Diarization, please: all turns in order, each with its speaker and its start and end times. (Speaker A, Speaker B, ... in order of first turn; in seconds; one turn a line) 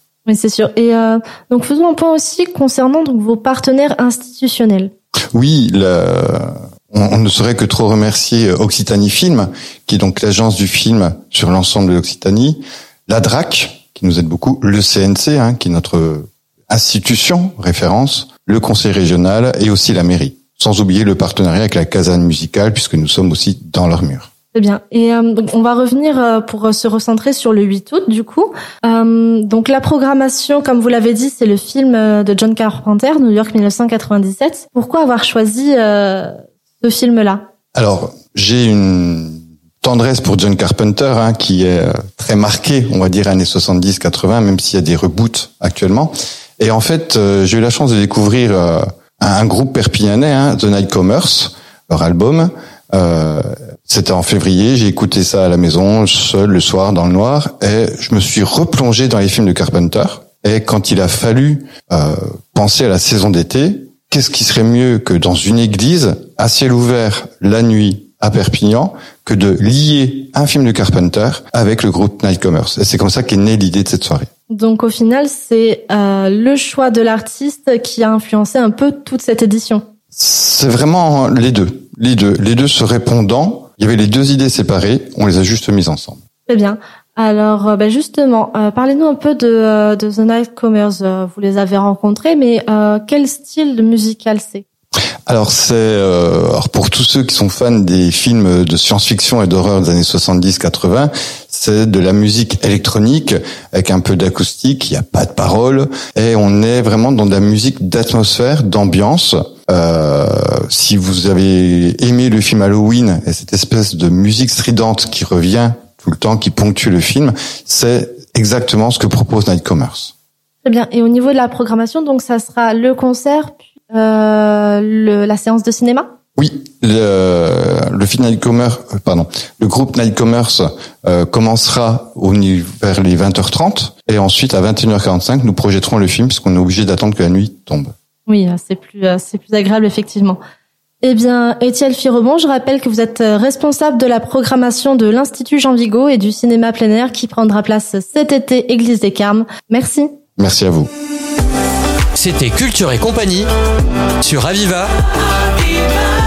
Speaker A: 0.2-4.9
Speaker B: 5.3-24.3
Speaker A: 24.5-37.4
Speaker B: 37.7-74.3
Speaker A: 74.5-79.8
Speaker B: 80.1-86.2
Speaker A: 86.5-94.7
Speaker B: 95.3-120.1
Speaker A: 120.6-126.1
Speaker B: 126.4-137.9
Speaker A: 138.2-140.4
Speaker A: 141.0-150.1
Speaker B: 150.4-150.9
Speaker C: 152.1-153.5
Speaker C: 154.2-154.9